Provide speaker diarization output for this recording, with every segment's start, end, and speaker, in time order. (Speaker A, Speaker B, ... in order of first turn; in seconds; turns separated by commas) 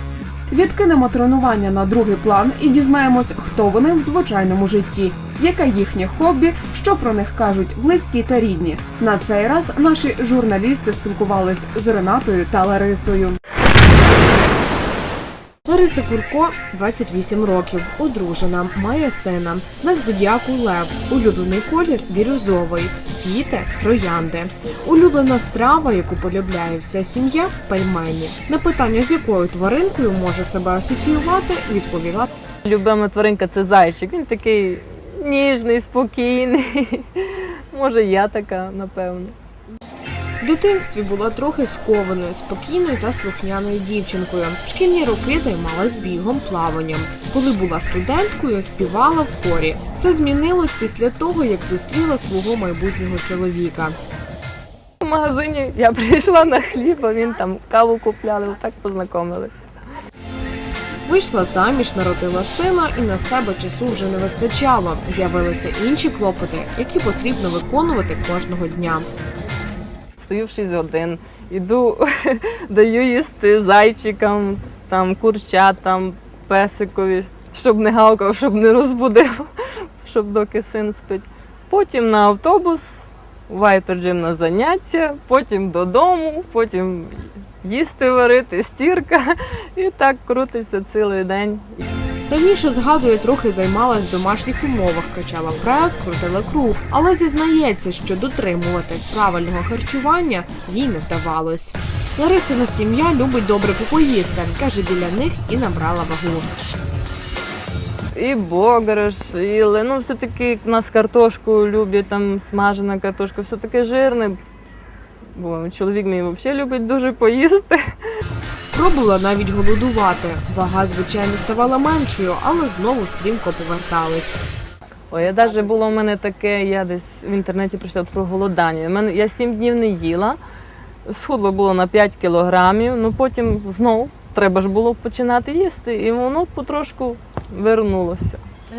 Speaker A: 0.5-13.4, Speaker B: 15.7-32.3, Speaker C: 32.6-39.3, Speaker B: 40.4-54.0, Speaker C: 55.0-59.6, Speaker B: 61.1-69.1, Speaker C: 70.2-79.5, Speaker C: 80.0-91.8, Speaker B: 92.3-106.5, Speaker C: 108.2-114.4, Speaker C: 115.3-117.9, Speaker B: 118.7-124.4, Speaker C: 125.1-130.4, Speaker B: 125.3-126.0, Speaker C: 131.1-138.4